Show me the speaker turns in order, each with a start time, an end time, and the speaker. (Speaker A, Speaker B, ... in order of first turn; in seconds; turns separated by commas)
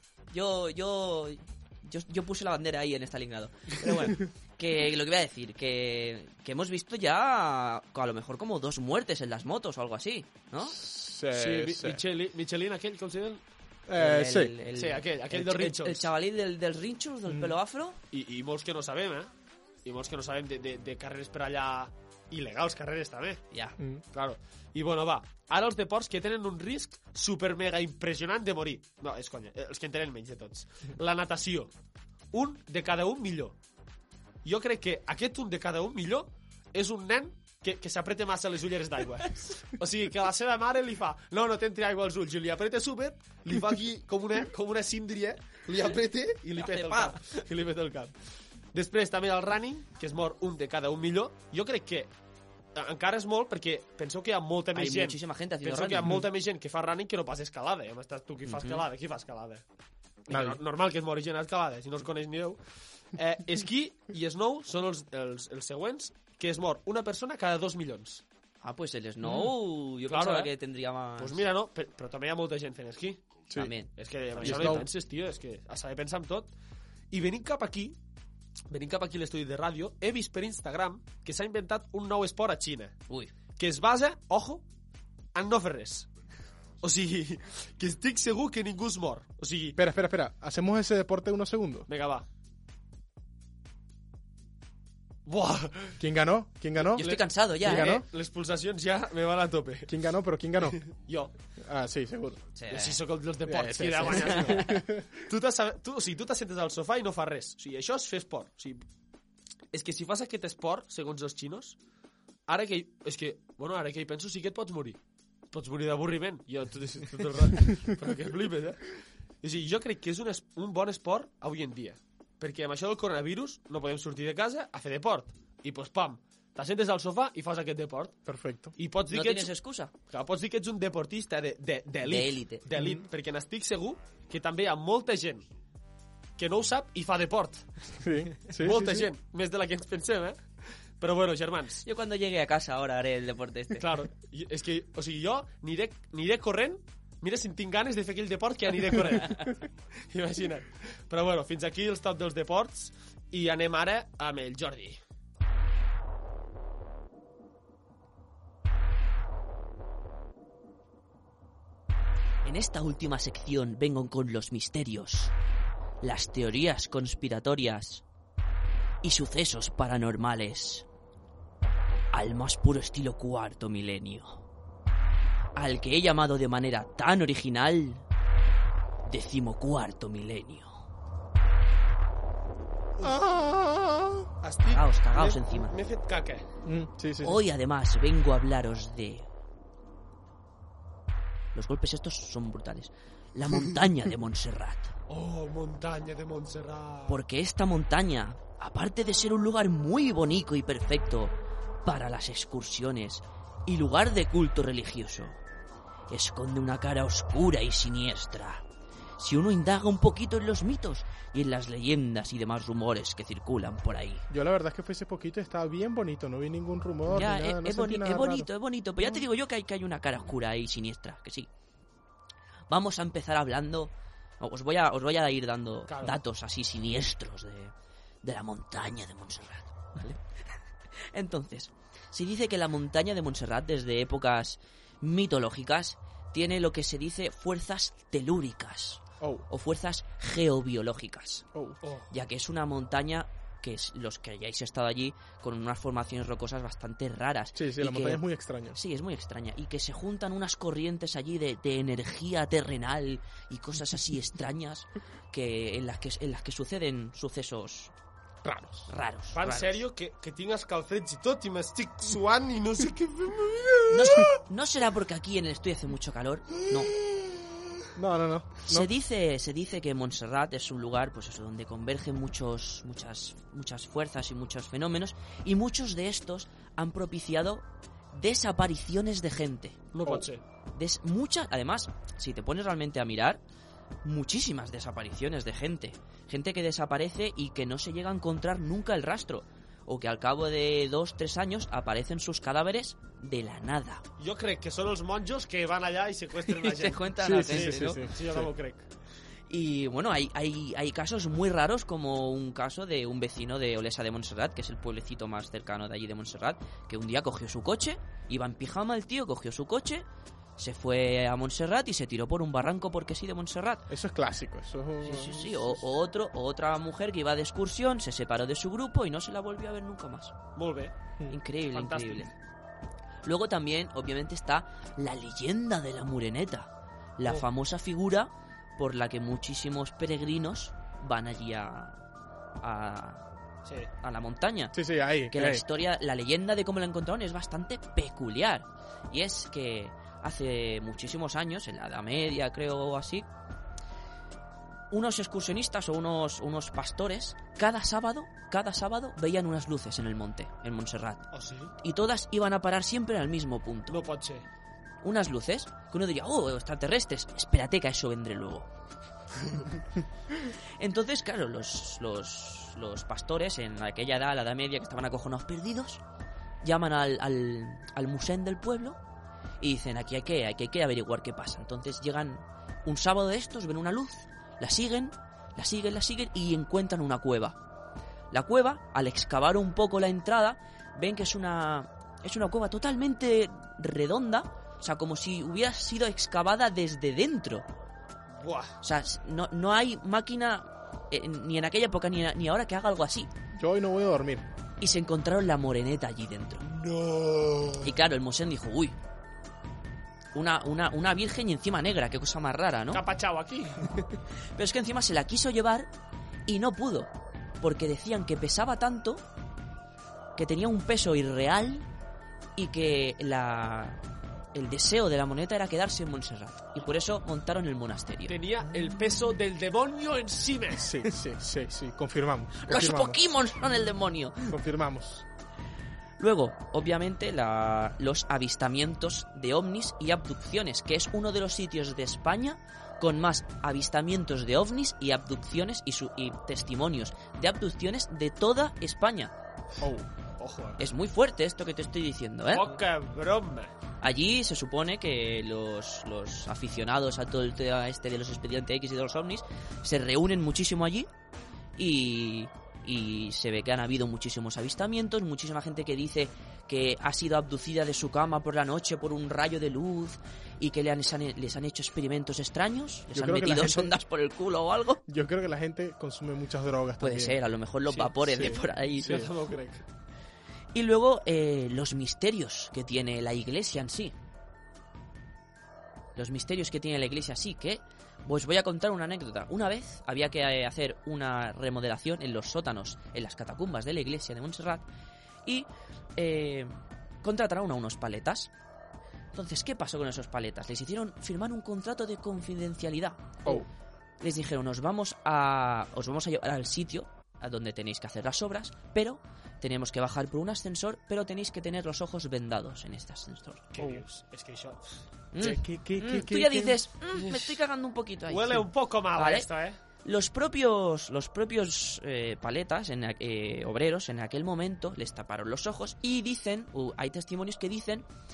Speaker A: 0.3-10.8, Speaker B: 10.7-12.0, Speaker C: 11.3-13.4, Speaker B: 13.9-14.5, Speaker A: 13.9-18.0, Speaker C: 14.7-16.1, Speaker B: 17.3-17.6, Speaker C: 18.1-19.3, Speaker C: 19.8-23.4, Speaker A: 23.5-23.8, Speaker C: 24.1-31.7, Speaker C: 32.3-33.5, Speaker C: 34.4-48.1, Speaker A: 46.6-47.4, Speaker C: 48.7-52.1, Speaker C: 52.7-59.6, Speaker A: 54.7-56.2, Speaker A: 58.5-58.8, Speaker C: 60.3-62.6, Speaker B: 60.3-60.6, Speaker C: 63.1-68.2, Speaker A: 68.6-71.4, Speaker C: 70.1-70.5, Speaker C: 71.2-73.2, Speaker A: 73.5-74.8, Speaker C: 74.0-76.5, Speaker B: 74.4-74.9, Speaker C: 77.1-78.0, Speaker C: 78.7-83.0, Speaker C: 83.5-84.6, Speaker C: 85.3-86.1, Speaker C: 86.8-89.8, Speaker B: 89.8-91.9, Speaker C: 91.9-92.2, Speaker C: 95.2-96.0, Speaker B: 96.0-97.1, Speaker A: 96.9-98.0, Speaker C: 97.0-99.9, Speaker B: 97.6-98.0, Speaker B: 99.9-100.8, Speaker C: 100.7-101.3, Speaker B: 101.6-102.4, Speaker A: 102.5-103.0, Speaker C: 102.7-108.8, Speaker B: 103.5-105.2, Speaker A: 104.3-104.7, Speaker C: 109.7-111.8, Speaker C: 112.5-115.0, Speaker C: 115.5-128.2, Speaker B: 128.3-128.7, Speaker C: 128.8-129.5, Speaker A: 129.1-129.9, Speaker C: 130.1-135.5, Speaker A: 132.0-132.6, Speaker B: 132.8-133.0, Speaker C: 136.4-137.9, Speaker B: 137.9-139.1, Speaker C: 138.6-140.4, Speaker C: 141.0-141.8, Speaker A: 141.8-143.8, Speaker C: 143.7-149.6, Speaker A: 149.2-149.5, Speaker C: 150.1-155.0, Speaker A: 162.4-165.3, Speaker A: 166.0-168.0, Speaker A: 169.0-170.8, Speaker A: 172.1-174.4, Speaker A: 175.5-178.0, Speaker A: 179.1-180.8, Speaker B: 183.0-184.3, Speaker C: 184.4-186.4, Speaker A: 184.7-185.8, Speaker B: 186.6-187.4, Speaker A: 187.2-189.3, Speaker A: 191.5-194.9, Speaker C: 195.1-197.2, Speaker A: 197.1-205.4, Speaker A: 206.1-208.6, Speaker A: 209.2-214.2, Speaker B: 214.3-218.5, Speaker A: 217.1-221.5, Speaker A: 222.7-230.2, Speaker C: 225.9-226.2, Speaker A: 231.1-241.4, Speaker B: 239.2-239.4, Speaker C: 241.8-242.1, Speaker A: 242.1-257.9, Speaker B: 247.6-248.8, Speaker B: 258.4-258.9, Speaker A: 258.9-259.8, Speaker C: 259.3-264.3, Speaker A: 263.9-266.9, Speaker B: 267.9-268.9, Speaker A: 268.7-279.9, Speaker C: 279.9-280.4, Speaker A: 280.7-283.4, Speaker A: 284.0-294.0, Speaker C: 294.2-298.9, Speaker A: 296.5-298.1, Speaker B: 297.2-298.5, Speaker A: 299.5-310.0, Speaker A: 310.6-313.9, Speaker B: 313.9-315.9, Speaker A: 315.0-320.3, Speaker C: 320.6-320.9, Speaker A: 321.3-322.3, Speaker C: 321.7-322.3, Speaker A: 323.2-332.0, Speaker A: 332.6-333.2, Speaker C: 333.6-333.9, Speaker A: 334.0-334.8, Speaker B: 334.7-335.6, Speaker A: 335.3-343.2, Speaker A: 344.9-351.3, Speaker C: 351.3-351.7, Speaker A: 351.8-354.0, Speaker C: 353.9-354.4, Speaker A: 355.0-358.7, Speaker A: 360.5-366.0, Speaker A: 366.6-369.0, Speaker A: 369.6-377.6, Speaker A: 378.3-387.7, Speaker C: 388.4-388.7, Speaker A: 388.8-393.3, Speaker B: 393.5-394.5, Speaker A: 394.8-396.7, Speaker C: 396.6-397.9, Speaker A: 397.8-398.9, Speaker A: 400.3-403.0, Speaker C: 402.9-403.9, Speaker A: 403.9-405.9, Speaker A: 406.5-407.1, Speaker A: 407.6-409.2, Speaker A: 410.4-411.9, Speaker A: 412.6-414.0, Speaker A: 414.5-418.4, Speaker C: 418.3-420.9, Speaker B: 420.8-423.2, Speaker A: 422.6-424.6, Speaker B: 424.5-425.2, Speaker A: 426.2-439.3, Speaker C: 440.4-440.8, Speaker A: 440.8-442.8, Speaker C: 442.5-443.7, Speaker A: 444.0-451.1, Speaker A: 451.8-465.0, Speaker B: 463.1-464.0, Speaker B: 465.1-467.4, Speaker A: 467.0-469.3, Speaker B: 468.2-469.3, Speaker C: 469.0-469.8, Speaker A: 470.7-474.1, Speaker A: 476.1-484.9, Speaker A: 485.4-488.5, Speaker A: 489.3-493.6, Speaker A: 494.2-503.7, Speaker C: 503.7-505.6, Speaker B: 503.8-504.0, Speaker A: 505.3-509.5, Speaker B: 505.4-506.8, Speaker C: 508.3-509.8, Speaker A: 510.0-518.0